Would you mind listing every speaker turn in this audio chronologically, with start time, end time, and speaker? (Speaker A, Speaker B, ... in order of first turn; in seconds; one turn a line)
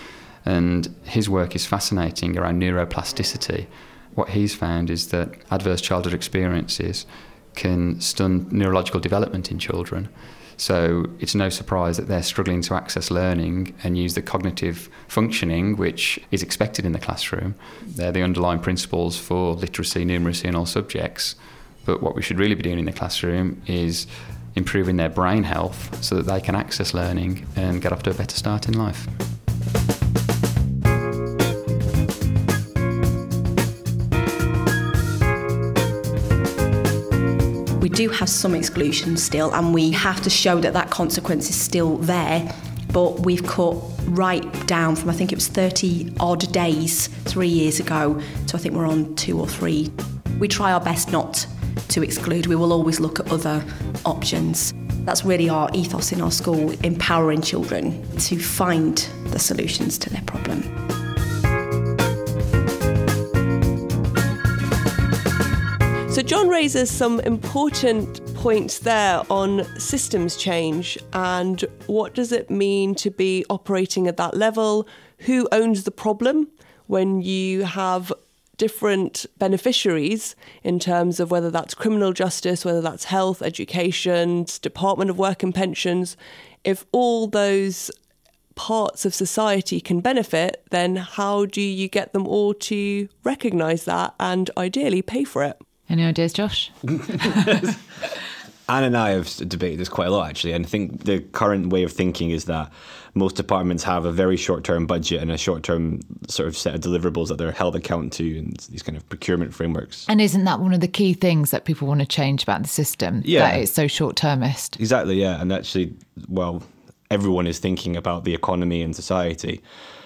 Speaker A: 0.4-29.1
Speaker B: 37.8-60.7
Speaker C: 66.1-87.9
Speaker C: 88.5-95.6
Speaker D: 95.9-97.6
Speaker E: 98.7-110.1
Speaker D: 110.1-114.8
Speaker E: 113.2-113.7
Speaker E: 114.8-119.6